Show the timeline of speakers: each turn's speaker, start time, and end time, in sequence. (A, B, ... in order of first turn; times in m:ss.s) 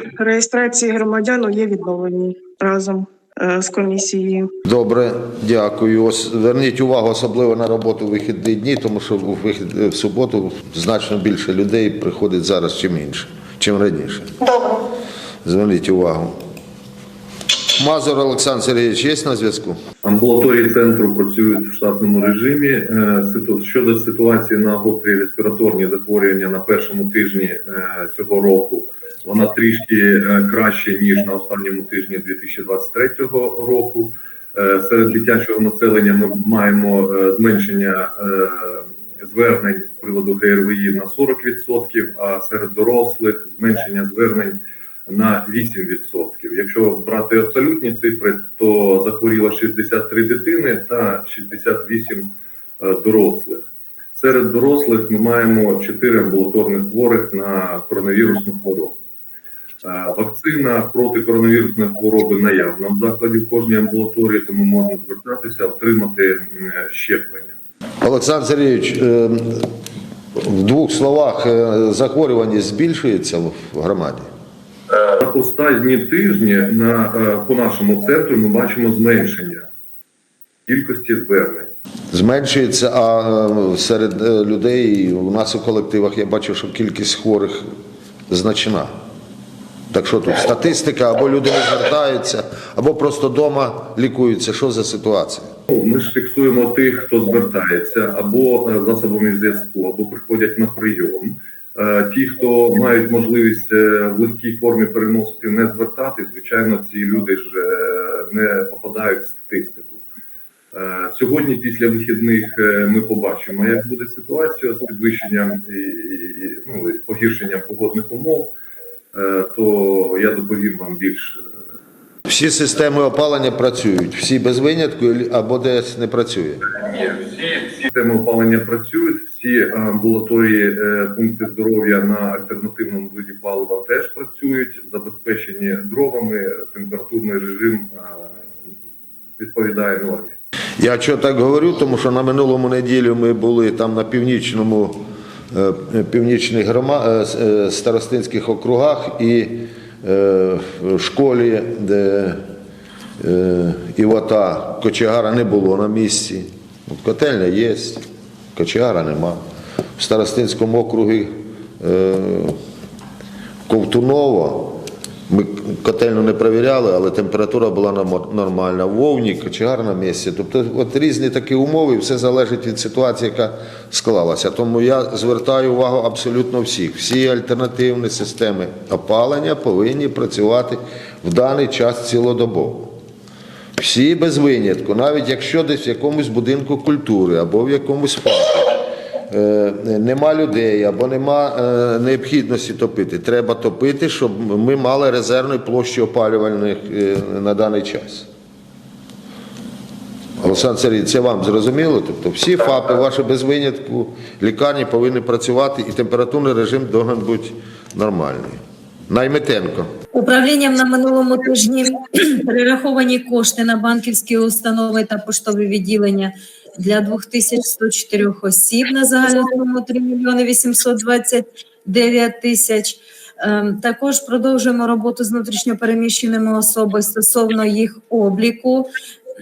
0:00.2-0:04.5 A
0:04.6-0:14.3 B
0:15.4-0:16.4 B
0:17.8-0:19.8 B
0:20.0-0:53.6 C
0:54.2-0:59.0 C
0:59.8-1:07.6 C
1:08.0-1:09.7 B
1:10.3-1:14.3 B
1:15.2-1:19.7 C
1:20.7-1:21.7 C
1:22.1-1:27.6 B
1:28.3-1:28.9 B
1:29.9-1:35.5 B
1:35.7-1:50.0 C
1:50.7-1:58.5 C
1:59.1-2:01.4 C
2:02.3-2:06.7 B
2:06.8-2:18.4 C
2:19.4-2:20.4 C
2:20.8-2:25.0 B
2:25.5-2:32.4 B
2:33.2-2:38.0 B
2:38.6-2:39.4 B
2:40.0-2:42.5 B
2:43.7-3:02.9 B
3:03.8-3:18.3 B
3:20.4-3:29.9 B
3:30.1-3:36.3 D
3:36.8-3:48.8 D